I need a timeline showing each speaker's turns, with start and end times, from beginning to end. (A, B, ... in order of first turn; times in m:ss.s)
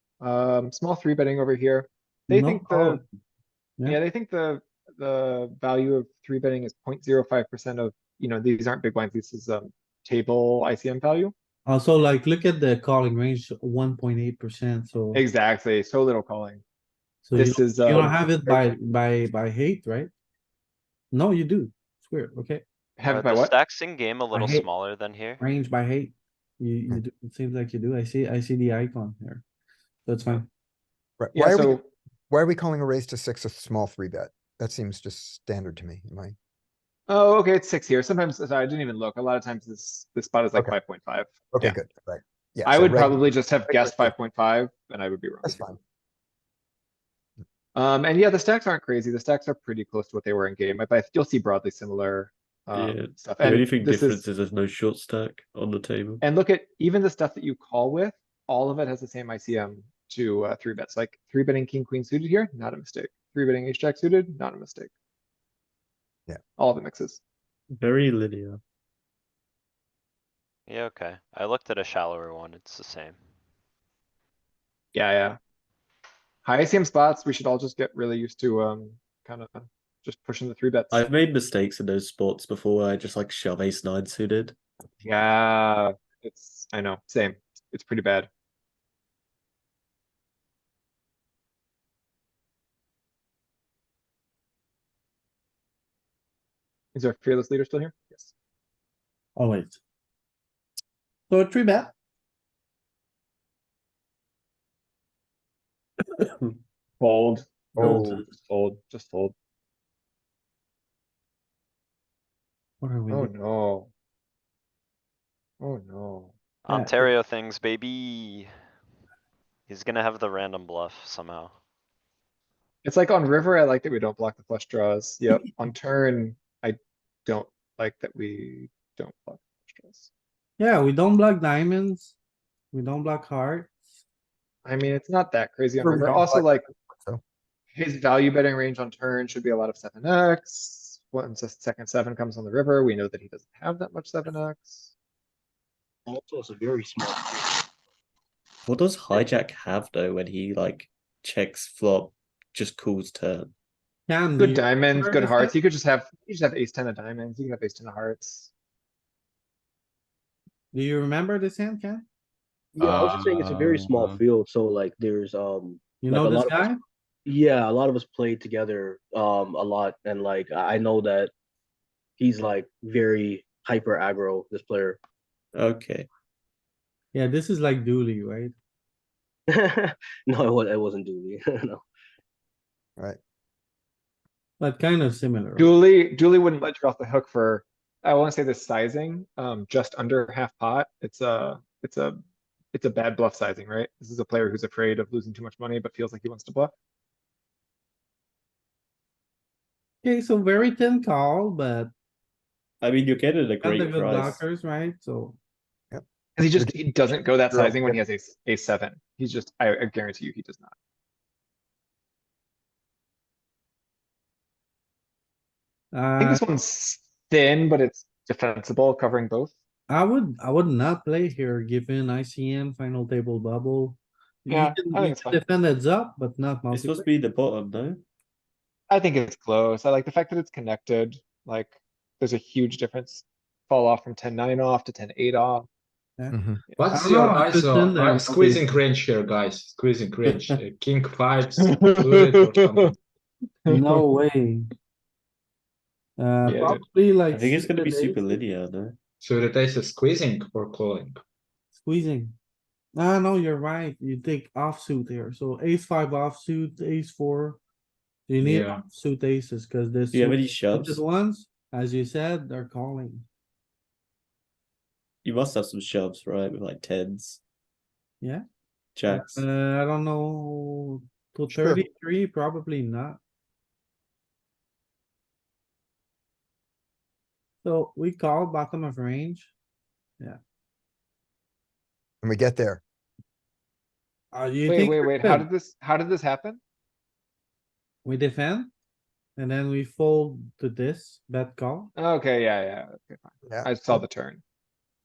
0:00.2-0:03.0 A
0:02.3-0:03.0 B
0:03.8-0:11.3 A
0:11.7-0:15.2 B
0:15.1-0:16.6 A
0:17.2-0:20.1 B
0:17.3-0:18.6 A
0:21.1-0:22.6 B
0:23.0-0:23.5 A
0:23.1-0:25.4 C
0:24.3-0:24.7 B
0:25.4-0:29.4 B
0:30.1-0:30.5 B
0:31.2-0:31.8 D
0:31.3-0:31.9 A
0:32.3-0:36.4 D
0:37.1-0:41.8 A
0:41.5-0:44.1 D
0:42.6-0:45.7 A
0:45.4-0:45.8 D
0:47.8-0:54.2 A
0:52.7-0:56.2 E
0:56.2-1:04.9 A
1:06.6-1:07.2 A
1:07.7-1:08.6 E
1:10.7-1:13.2 C
1:14.9-1:15.4 A
1:16.4-1:21.0 A
1:20.9-1:24.6 E
1:25.0-1:28.3 A
1:37.0-1:38.3 A
1:39.4-1:39.8 B
1:41.3-1:41.9 B
1:47.0-1:49.3 A
1:47.8-1:48.1 D
1:47.8-1:48.2 E
1:52.8-1:53.3 B
1:53.1-1:53.9 A
1:55.6-1:56.3 A
1:56.6-1:58.5 C
1:56.7-1:57.1 B
1:59.7-2:01.5 C
2:02.8-2:10.1 A
2:10.6-2:12.2 B
2:12.7-2:13.8 B
2:14.7-2:16.7 A
2:15.8-2:17.2 D
2:17.8-2:24.9 A
2:26.1-2:27.6 F
2:28.7-2:33.5 E
2:34.1-2:35.5 B
2:34.4-2:38.5 A
2:40.7-2:42.1 B
2:42.8-2:51.3 F
2:42.8-2:44.2 G
2:46.0-2:46.8 B
2:52.2-2:55.0 F
2:55.6-2:56.1 E
2:57.1-2:58.5 B
2:59.5-3:01.8 F
3:04.6-3:05.7 B
3:05.6-3:12.2 A
3:12.7-3:16.7 A
3:20.0-3:21.9 B
3:22.8-3:24.4 E
3:23.6-3:25.4 B
3:26.4-3:30.7 A
3:27.5-3:28.0 D
3:35.9-3:36.4 B
3:36.2-3:39.5 A
3:39.9-3:47.1 B
3:44.5-3:45.4 A
3:46.7-3:48.0 E
3:48.9-3:55.7 A
3:56.3-3:56.6 D
3:56.8-4:02.9 G
3:56.9-3:58.7 B
4:01.6-4:02.9 A
4:03.7-4:04.0 A
4:03.7-4:04.7 B
4:06.2-4:08.4 B
4:06.4-4:06.8 A
4:07.3-4:09.0 E
4:09.2-4:11.2 G
4:11.8-4:12.4 B
4:13.0-4:17.6 B
4:18.3-4:23.3 B
4:18.4-4:18.8 G
4:20.1-4:21.0 E
4:25.2-4:27.4 E
4:29.0-4:29.5 E
4:29.1-4:33.2 B
4:31.5-4:31.8 D
4:37.6-4:39.5 B
4:42.2-4:42.8 D
4:44.3-4:45.5 B
4:44.7-4:46.6 A
4:48.0-4:48.7 B
4:49.4-4:51.9 B
4:52.0-4:54.4 A
4:53.5-4:54.0 D